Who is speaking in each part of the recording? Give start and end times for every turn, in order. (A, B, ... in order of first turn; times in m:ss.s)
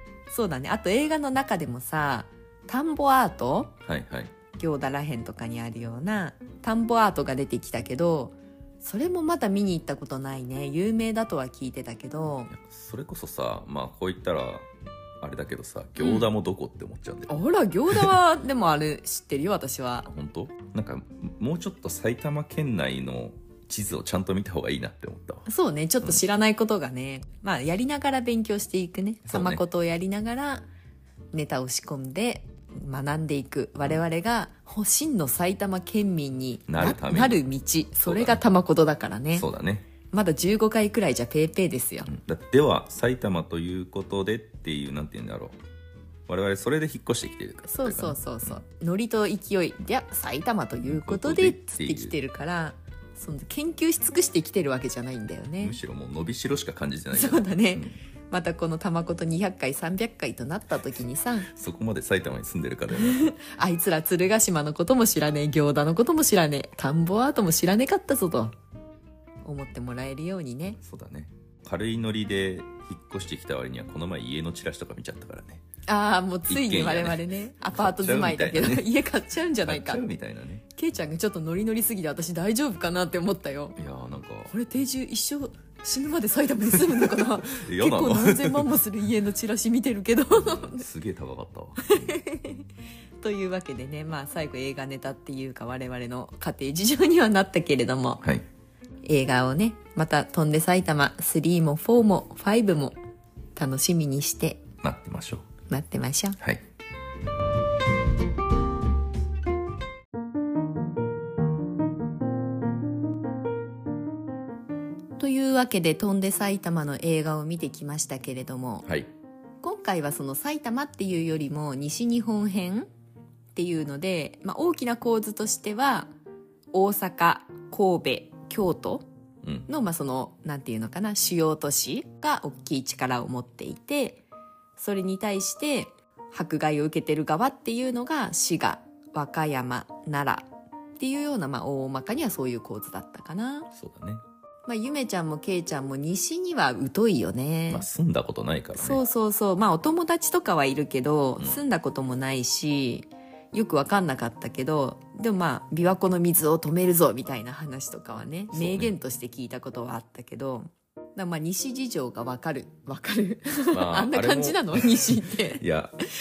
0:00.3-0:03.8 A
0:03.8-0:04.3 B
0:04.6-0:12.5 A
0:12.5-0:14.6 B
0:15.2-0:17.4 B
0:16.0-0:16.3 A
0:17.3-0:20.1 A
0:20.0-0:25.4 B
0:25.4-0:30.7 A
0:29.2-0:29.6 B
0:31.3-0:39.5 A
0:36.7-0:37.4 B
0:38.0-0:38.4 B
0:39.3-0:39.9 B
0:40.1-0:42.1 A
0:42.1-0:45.6 B
0:46.3-0:48.6 B
0:47.6-0:55.8 A
0:50.8-0:52.2 B
0:55.6-0:57.9 B
0:57.1-1:01.5 A
1:01.5-1:03.3 B
1:02.9-1:08.5 A
1:09.4-1:10.8 A
1:10.7-1:15.6 B
1:15.9-1:20.0 A
1:16.5-1:17.2 B
1:17.7-1:18.9 B
1:19.6-1:20.6 B
1:20.7-1:23.8 A
1:23.8-1:24.5 B
1:24.5-1:30.8 A
1:26.9-1:28.7 B
1:30.3-1:32.2 B
1:31.8-1:32.7 A
1:33.2-1:38.2 A
1:39.0-1:43.0 A
1:43.6-1:44.6 A
1:44.8-1:45.4 B
1:45.7-1:46.4 A
1:55.2-1:58.9 A
1:58.8-1:59.1 B
1:59.6-2:02.9 A
2:03.5-2:06.1 A
2:06.7-2:09.0 A
2:09.7-2:14.2 A
2:14.8-2:23.7 A
2:23.7-2:24.2 B
2:24.6-2:27.8 A
2:27.7-2:29.0 B
2:28.8-2:45.6 A
2:38.5-2:38.9 B
2:43.7-2:46.0 B